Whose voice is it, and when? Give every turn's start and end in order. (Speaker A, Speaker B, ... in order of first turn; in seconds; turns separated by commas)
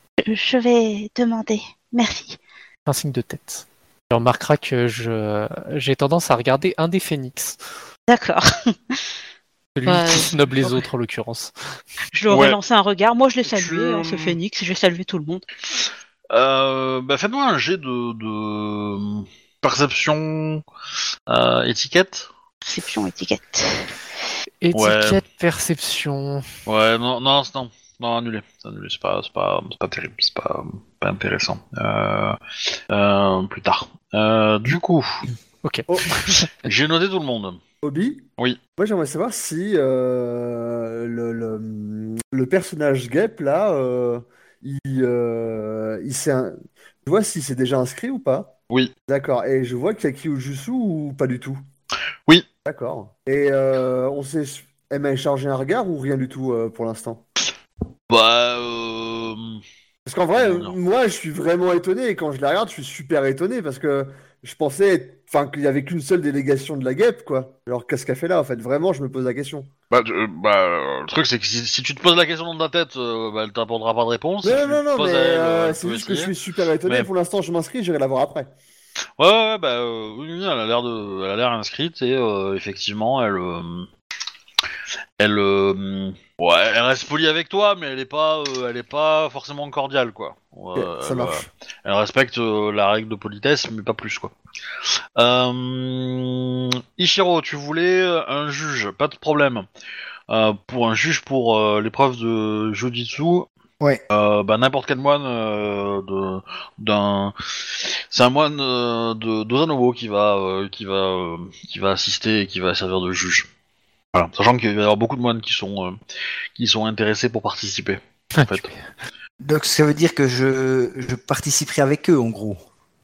Speaker A: 0.2-2.4, Speaker B: 2.9-7.6, Speaker A: 8.1-9.0, Speaker B: 9.8-11.5, Speaker A: 9.8-10.9, Speaker A: 12.1-15.4, Speaker C: 12.3-12.6, Speaker C: 13.5-14.4, Speaker C: 16.3-20.6, Speaker C: 21.3-22.3, Speaker A: 22.6-23.9, Speaker B: 24.6-26.5, Speaker C: 24.7-25.2, Speaker C: 26.7-32.4, Speaker C: 32.9-35.2, Speaker B: 35.6-36.5, Speaker D: 35.9-36.1, Speaker C: 36.6-37.6, Speaker D: 37.8-38.2, Speaker D: 38.8-48.5, Speaker D: 49.1-51.6, Speaker D: 52.6-57.2, Speaker C: 58.1-59.6, Speaker D: 60.1-69.7, Speaker C: 60.3-60.8, Speaker C: 69.9-76.3, Speaker D: 74.4-78.5, Speaker C: 76.8-77.1, Speaker C: 79.2-83.9, Speaker C: 85.2-94.3, Speaker D: 90.8-91.5, Speaker C: 95.2-99.7, Speaker C: 100.3-103.5, Speaker C: 104.1-113.5, Speaker C: 114.1-116.0, Speaker C: 116.6-118.7, Speaker B: 118.3-118.8, Speaker E: 119.4-122.6